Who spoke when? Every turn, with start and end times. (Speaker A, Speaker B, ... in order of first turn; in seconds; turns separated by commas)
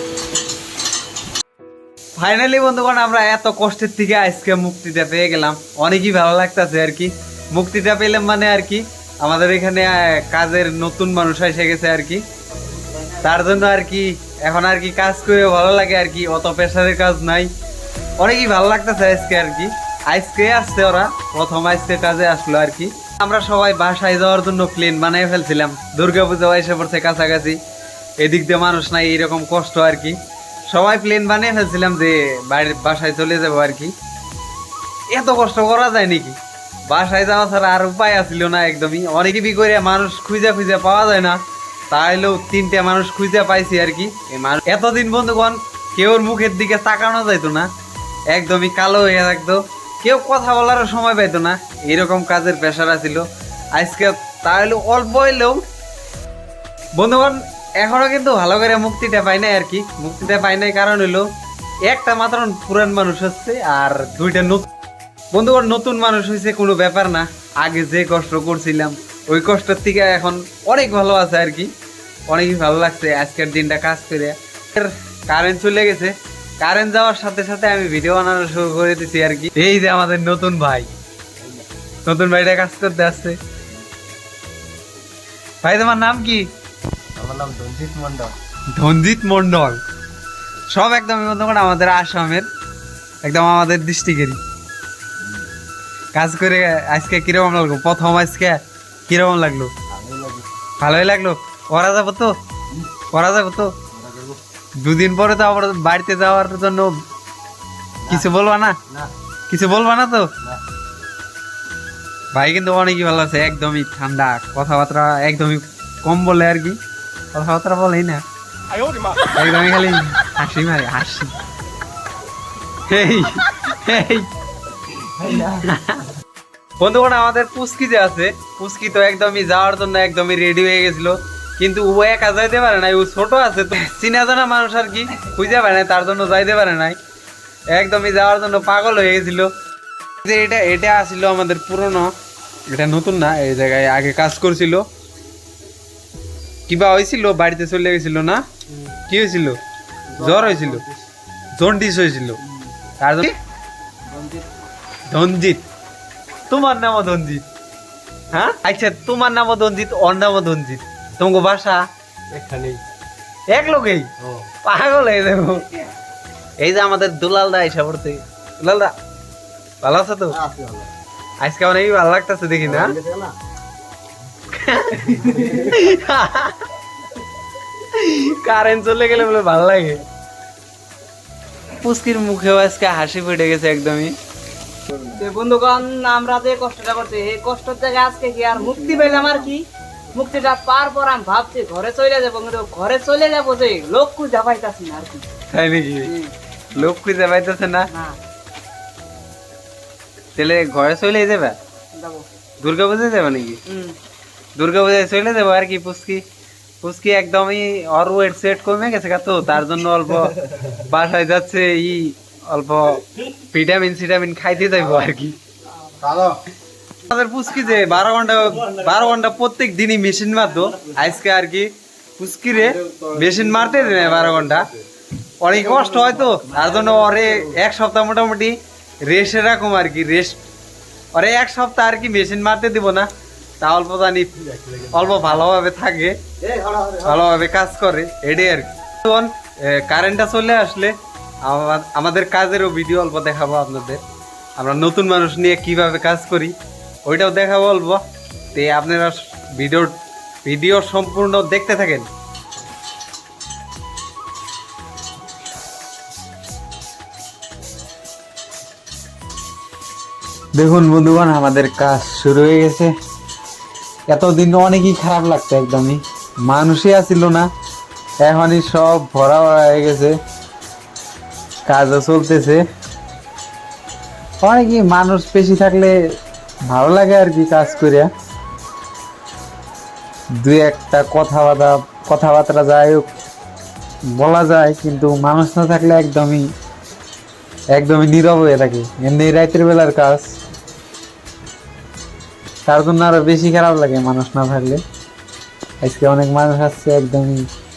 Speaker A: 2.2-12.2, Speaker A: 13.2-17.5, Speaker A: 18.2-27.6, Speaker A: 28.2-33.9, Speaker A: 35.1-47.7, Speaker A: 48.3-55.6, Speaker A: 57.0-61.2, Speaker A: 61.9-64.7, Speaker A: 65.3-71.7, Speaker A: 72.3-80.9, Speaker A: 82.0-83.4, Speaker A: 85.6-86.5, Speaker B: 87.2-88.3, Speaker A: 88.7-89.8, Speaker A: 90.7-92.5, Speaker A: 93.2-94.4, Speaker A: 96.1-99.7, Speaker B: 99.9-100.4, Speaker A: 100.8-102.3, Speaker A: 103.1-103.7, Speaker B: 104.0-104.3, Speaker A: 104.8-106.9, Speaker A: 108.1-108.8, Speaker A: 109.5-110.3, Speaker A: 112.3-116.8, Speaker A: 117.3-118.2, Speaker A: 119.2-121.3, Speaker A: 122.8-124.3, Speaker B: 125.2-125.6, Speaker A: 125.4-126.0, Speaker A: 126.8-137.0, Speaker A: 137.7-139.5, Speaker A: 140.2-142.1, Speaker A: 142.7-144.8, Speaker A: 146.7-149.6, Speaker A: 150.1-150.8, Speaker B: 150.2-151.0, Speaker A: 151.6-152.4, Speaker A: 153.0-153.4, Speaker B: 154.1-154.4, Speaker A: 155.1-155.6, Speaker A: 156.5-157.4, Speaker A: 158.3-161.8, Speaker B: 162.3-162.8, Speaker A: 163.5-164.1, Speaker A: 164.6-165.7, Speaker A: 166.6-168.9, Speaker A: 169.8-170.4, Speaker B: 170.3-170.9, Speaker A: 171.4-172.9, Speaker B: 172.6-173.3, Speaker A: 174.5-176.6, Speaker B: 175.2-175.5, Speaker A: 177.9-180.0, Speaker A: 181.8-184.1, Speaker C: 185.0-195.2, Speaker A: 195.5-196.1, Speaker A: 196.7-197.9, Speaker C: 197.9-198.2, Speaker A: 200.3-201.6, Speaker C: 201.9-202.2, Speaker A: 202.6-203.6, Speaker C: 203.7-204.0, Speaker A: 204.6-206.2, Speaker A: 206.8-215.4, Speaker B: 216.0-216.4, Speaker A: 217.0-224.7, Speaker B: 222.6-224.7, Speaker A: 225.4-230.4, Speaker B: 225.7-227.6, Speaker A: 231.1-233.1, Speaker A: 233.6-236.2, Speaker B: 234.5-235.0, Speaker B: 236.4-237.2, Speaker A: 237.0-244.0, Speaker A: 244.6-246.5, Speaker A: 247.1-248.0, Speaker A: 248.5-252.1, Speaker A: 260.6-262.9, Speaker A: 264.1-267.5, Speaker A: 268.2-270.1, Speaker A: 271.7-272.6, Speaker A: 274.4-275.9, Speaker A: 276.6-278.1, Speaker A: 280.4-283.1, Speaker A: 284.1-286.5, Speaker A: 287.7-290.2, Speaker A: 292.6-294.8, Speaker A: 295.8-297.5